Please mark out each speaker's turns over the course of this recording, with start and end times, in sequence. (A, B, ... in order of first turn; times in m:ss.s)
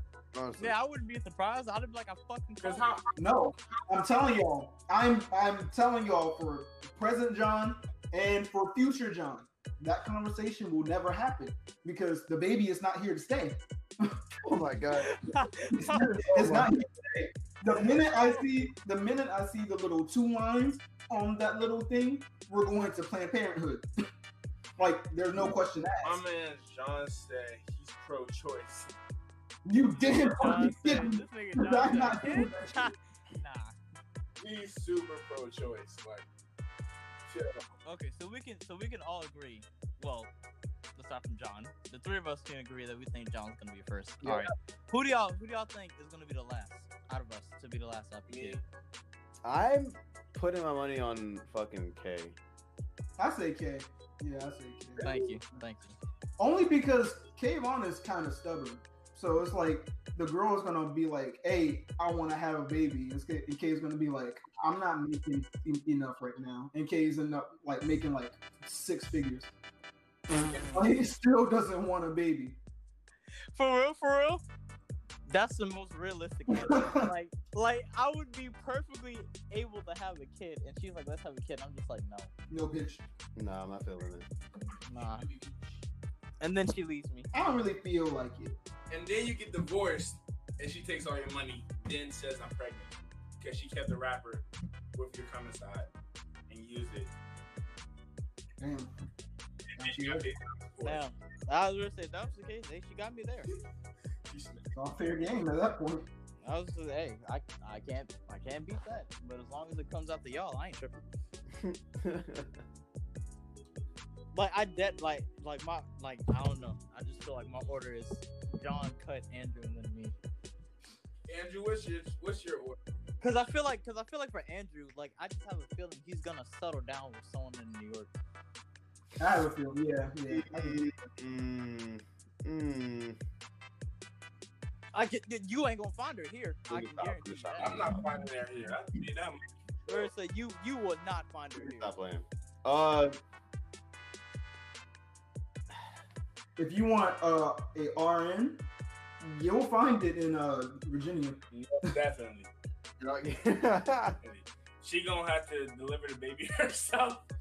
0:00.3-0:00.8 A
0:00.6-0:03.0 B
0:02.6-0:03.1 C
0:03.2-0:14.2 D
0:14.4-0:15.2 A
0:15.0-0:16.3 B
0:15.7-0:23.9 D
0:16.0-0:16.7 A
0:24.8-0:26.2 D
0:26.0-0:28.9 C
0:29.6-0:32.9 D
0:30.0-0:33.8 B
0:34.4-0:36.3 C
0:37.3-0:37.6 C
0:37.8-0:40.3 B
0:41.0-0:48.6 B
0:48.3-0:48.6 C
0:49.4-0:52.4 A
0:53.2-0:55.4 D
0:55.0-0:56.0 B
0:56.4-1:09.5 D
1:10.3-1:12.6 D
1:10.6-1:10.9 B
1:13.5-1:14.4 B
1:15.3-1:22.3 B
1:16.5-1:17.1 D
1:22.5-1:23.0 D
1:23.4-1:24.3 A
1:24.9-1:25.3 B
1:25.1-1:25.8 C
1:26.4-1:27.3 B
1:27.3-1:28.6 D
1:28.9-1:35.9 C
1:36.5-1:37.1 C
1:38.6-1:38.9 D
1:39.8-1:40.3 D
1:39.8-1:41.0 C
1:40.8-1:43.5 B
1:44.3-1:44.8 C
1:44.8-1:46.1 D
1:46.4-1:51.0 B
1:51.5-1:52.6 A
1:54.3-2:00.2 B
2:01.3-2:02.8 C
2:03.2-2:08.2 B
2:09.2-2:10.8 D
2:10.3-2:13.2 A
2:14.9-2:17.8 B
2:16.7-2:18.2 A
2:17.6-2:19.4 C
2:19.9-2:21.9 B
2:21.6-2:23.2 A
2:26.6-2:28.6 D
2:29.2-2:31.4 D
2:31.5-2:32.5 C
2:33.0-2:34.2 A
2:34.2-2:37.2 C